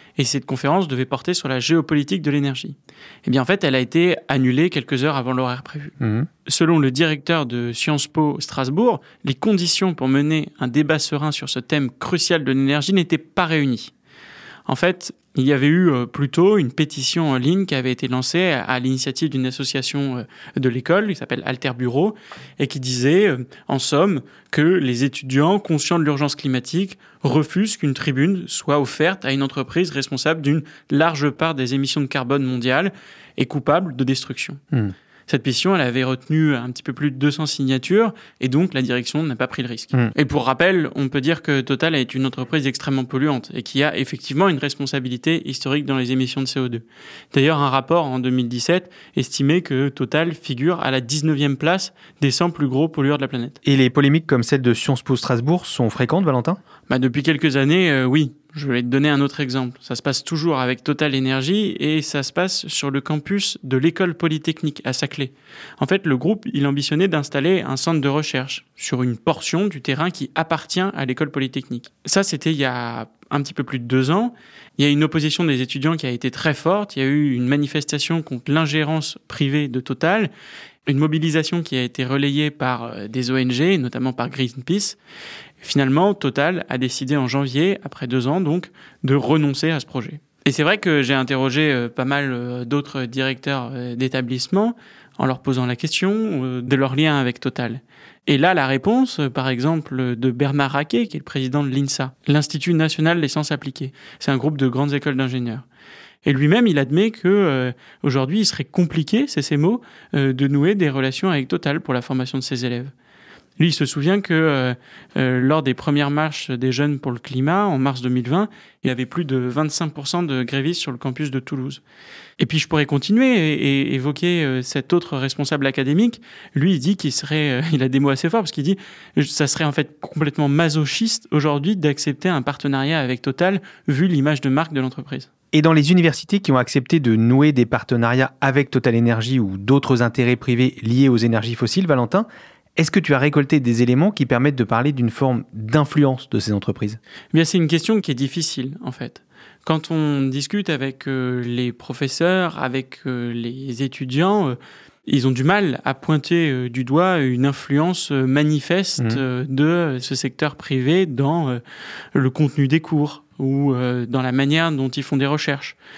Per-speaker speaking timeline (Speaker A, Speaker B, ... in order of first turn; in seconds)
Speaker A: 0.2-6.0, 6.5-13.9, 14.7-34.6, 35.3-53.6, 56.9-80.3, 80.9-85.0, 85.6-105.7, 106.2-112.9, 113.6-121.8, 122.4-135.3, 147.3-161.6, 162.1-165.8
Speaker B: 6.0-6.3, 53.6-56.6, 135.5-142.3, 142.8-147.0